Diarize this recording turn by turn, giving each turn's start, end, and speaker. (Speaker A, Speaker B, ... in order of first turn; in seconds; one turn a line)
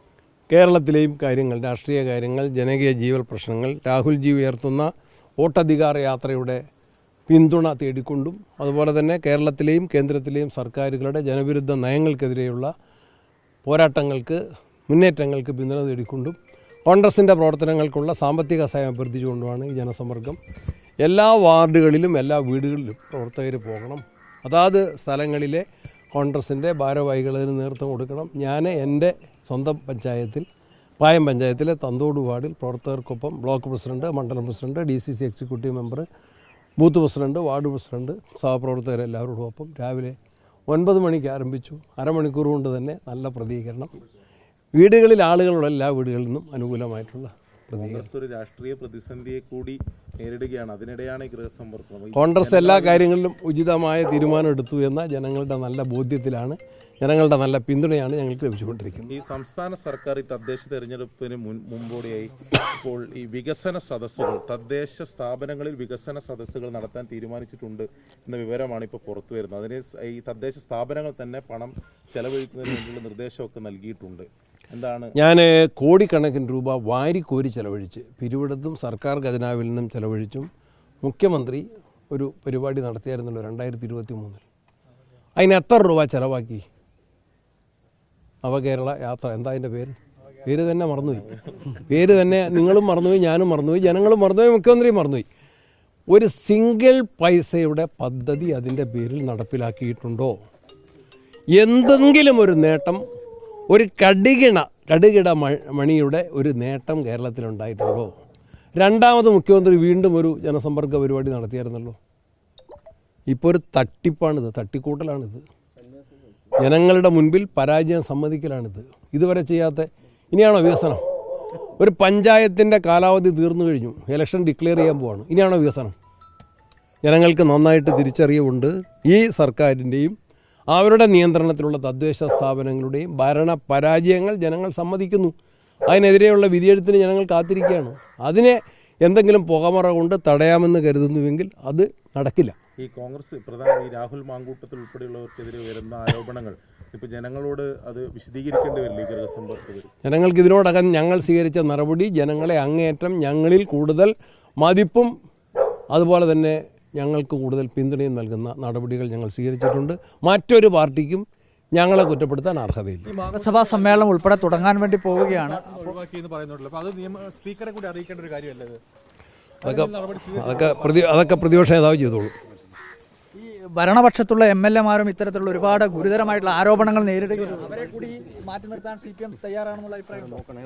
Speaker A: 0.5-6.6
Speaker A: 7.3-12.7
Speaker A: 13.7-20.4
Speaker A: 21.0-30.4
Speaker A: 31.0-36.0
Speaker A: 36.8-40.2
Speaker A: 40.7-43.9
Speaker A: 44.8-48.1
Speaker B: 47.8-53.1
Speaker A: 52.1-59.1
Speaker B: 59.1-75.1
Speaker A: 75.1-80.5
Speaker A: 81.0-84.4
Speaker A: 85.3-86.6
Speaker A: 88.4-95.2
Speaker A: 96.1-100.3
Speaker A: 101.5-103.0
Speaker A: 103.7-108.1
Speaker A: 108.8-112.0
Speaker A: 113.3-115.4
Speaker A: 116.6-121.0
Speaker A: 121.6-125.9
Speaker A: 127.0-130.2
Speaker A: 130.7-135.3
Speaker A: 135.9-142.6
Speaker B: 142.8-149.9
Speaker A: 150.0-155.1
Speaker A: 155.9-163.1
Speaker C: 163.1-163.9
Speaker D: 163.3-165.9
Speaker C: 165.6-168.8
Speaker A: 169.6-172.3
Speaker C: 169.6-171.0
Speaker D: 173.3-180.4